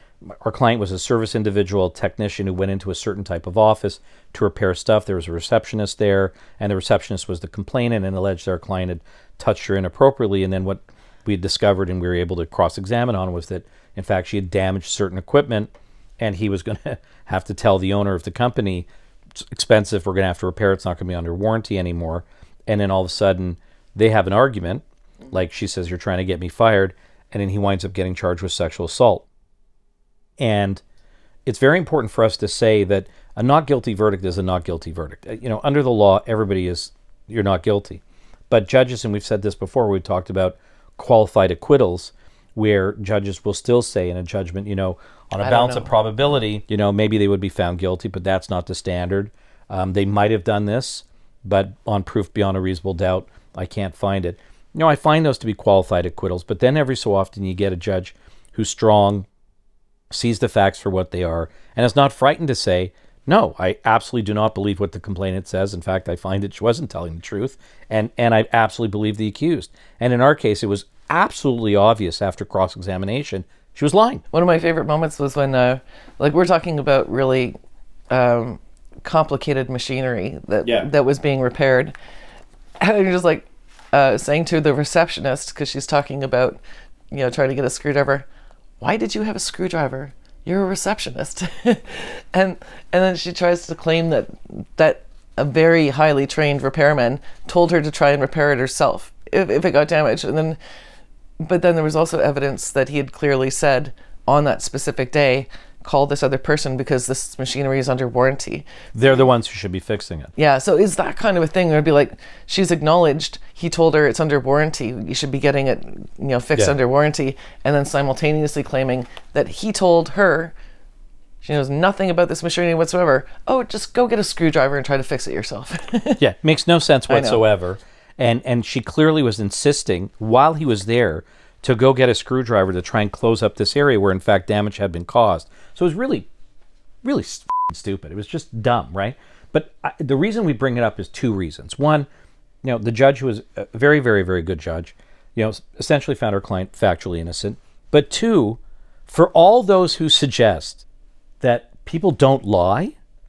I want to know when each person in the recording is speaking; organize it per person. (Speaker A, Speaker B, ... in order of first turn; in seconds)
Speaker A: 0.2-29.2, 30.4-30.8, 31.4-59.3, 60.1-74.2, 80.6-80.9, 108.9-110.3, 126.2-136.3, 137.0-142.1, 142.6-150.8, 151.4-152.9
Speaker B: 45.4-45.9, 74.3-77.6, 78.1-81.9, 82.8-86.6, 87.1-88.2, 88.8-100.6, 101.4-109.2, 110.4-120.5, 121.4-126.2, 127.1-127.4